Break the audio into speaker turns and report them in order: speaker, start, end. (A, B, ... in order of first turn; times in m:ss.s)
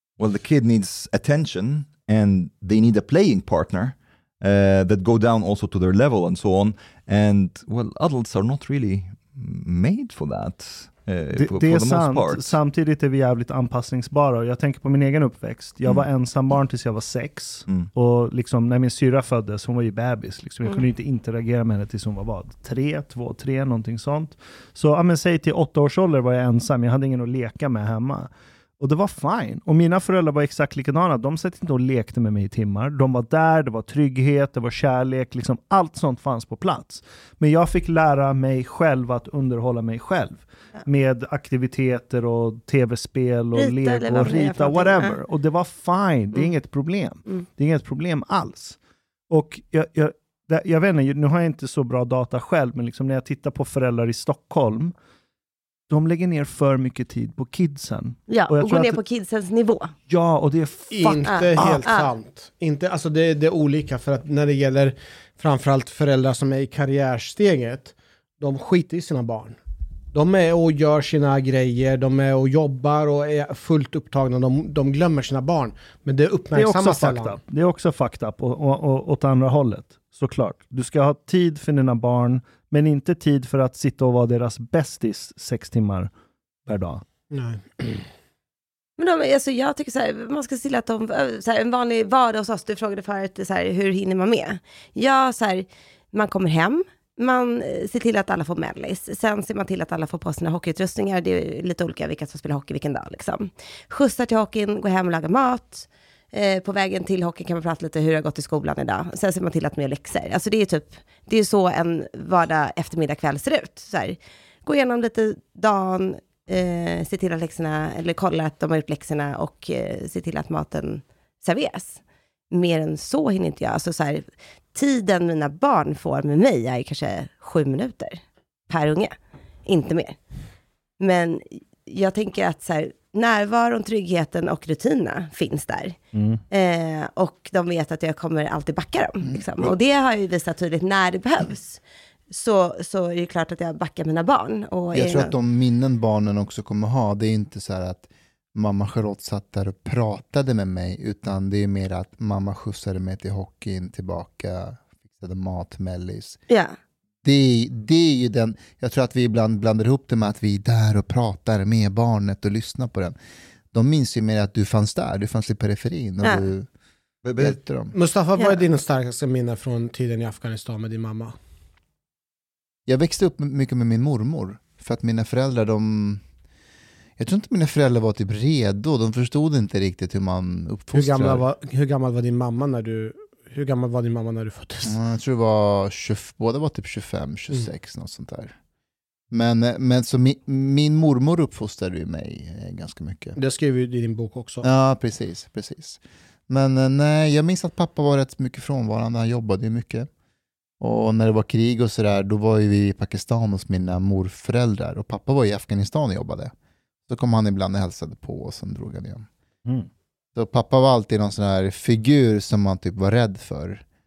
0:00.2-0:12.6 A
0:11.4-0:48.8 B
0:43.6-0:45.2 C
0:49.3-0:54.9 B
0:55.9-0:59.0 B
0:58.3-0:59.9 C
1:00.1-1:01.8 B
1:00.9-1:09.6 D
1:01.3-1:02.1 C
1:10.1-1:17.4 D
1:16.5-1:26.1 B
1:26.7-1:27.0 B
1:27.3-1:28.0 D
1:29.0-2:02.0 C
2:02.5-2:09.1 C
2:09.7-2:10.2 C
2:11.0-2:16.0 C
2:16.1-2:16.4 B
2:16.5-2:25.3 C
2:19.3-2:19.7 E
2:24.9-2:36.4 E
2:36.5-2:36.8 C
2:37.2-2:43.2 E
2:43.7-2:46.7 E
2:47.2-2:47.6 A
2:47.4-2:48.0 E
2:47.9-2:51.4 D
2:52.9-2:56.2 E
2:57.2-3:01.4 E
3:00.9-3:05.0 D
3:04.9-3:08.5 E
3:09.3-3:13.4 E
3:13.4-3:14.7 D
3:14.6-3:20.1 E
3:20.8-3:26.5 E
3:27.1-3:29.3 E
3:30.4-3:33.8 E